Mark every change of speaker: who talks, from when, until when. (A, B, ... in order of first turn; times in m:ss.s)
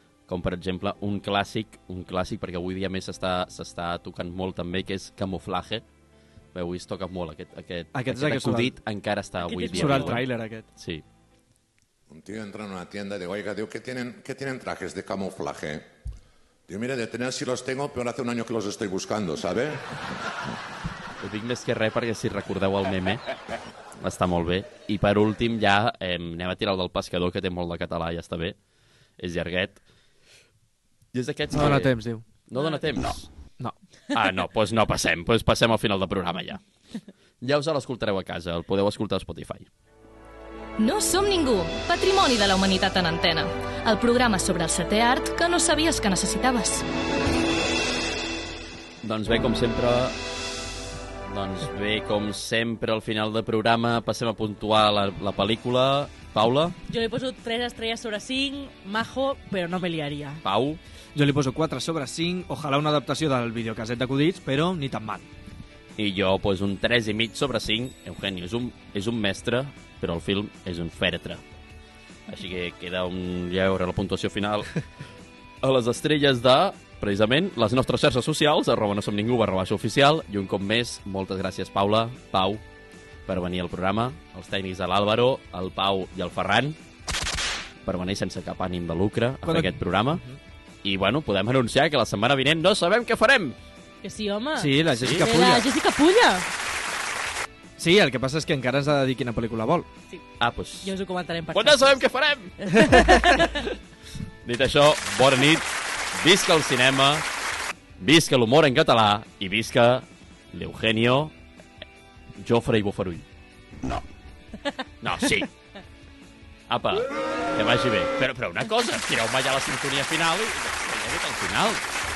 0:00.3-0:05.8 A
0:06.5-0:10.2 A
0:07.9-0:08.8 B
0:09.4-0:10.2 C
0:09.7-0:10.7 B
0:10.8-0:11.0 A
0:12.1-0:15.9 D
0:16.7-0:19.8 D
0:21.2-0:23.2 A
0:24.0-0:28.6 A
0:29.2-0:29.8 A
0:31.1-0:31.9 A
0:31.5-0:32.2 B
0:32.5-0:33.3 A
0:32.5-0:32.8 C
0:34.1-0:36.6 A
0:37.4-0:39.7 A
0:40.8-0:46.8 E
0:49.0-0:50.2 A
0:51.2-0:56.8 A
0:56.9-1:00.4 C
1:00.4-1:00.8 A
1:01.1-1:05.3 B
1:06.0-1:11.4 A
1:12.3-1:14.8 A
1:15.6-1:22.6 A
1:23.3-1:26.8 A
1:27.8-1:30.2 A
1:29.4-1:30.4 B
1:30.8-1:33.6 A
1:34.0-1:36.4 C
1:34.6-1:35.7 B
1:34.9-1:35.2 A
1:37.8-1:39.9 B
1:40.4-1:40.9 A
1:40.8-1:42.0 C
1:41.5-1:42.8 A
1:42.6-1:43.7 C
1:44.4-1:47.2 A
1:48.0-1:51.3 A
1:52.4-1:53.2 A
1:55.0-1:55.5 A
1:56.7-2:01.8 A